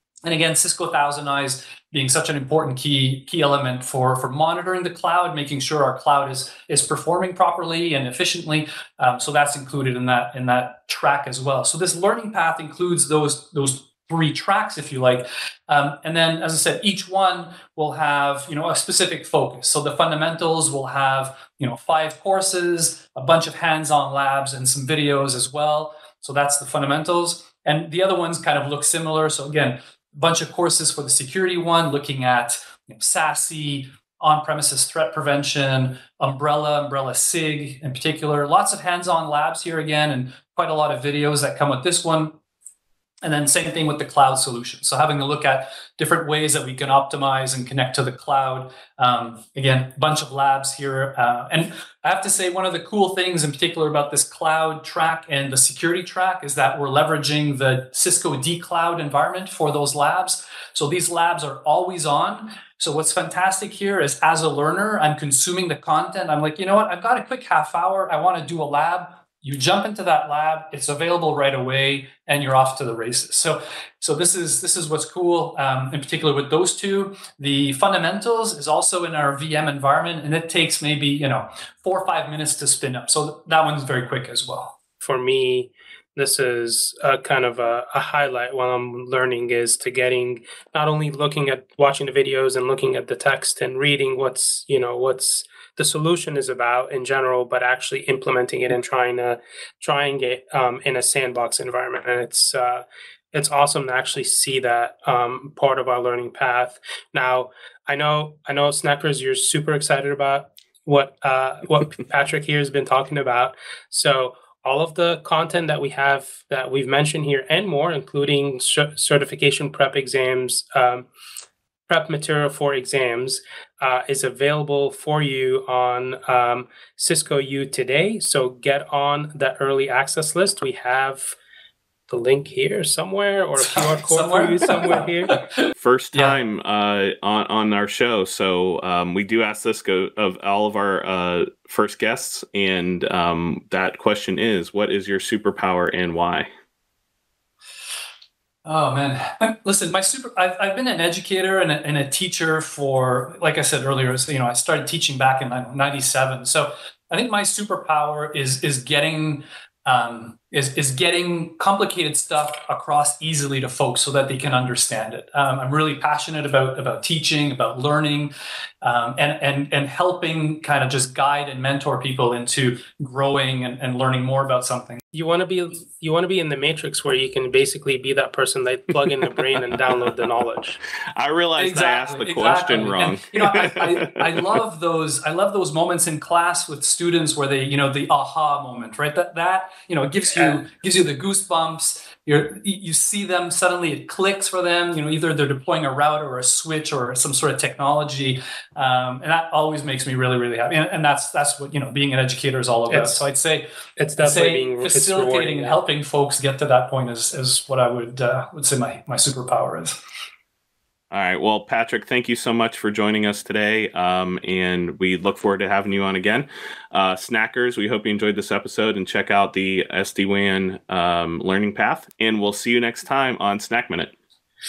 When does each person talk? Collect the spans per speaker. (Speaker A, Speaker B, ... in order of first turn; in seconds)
Speaker A: 0.2-42.4, 43.2-84.7, 133.6-136.4, 148.6-175.0, 181.6-203.7, 204.2-209.9
Speaker B: 85.0-121.1, 121.9-131.3, 132.1-135.3, 175.1-180.8, 202.9-203.2, 204.0-205.8
Speaker C: 135.8-146.5, 181.2-184.3, 211.1-224.1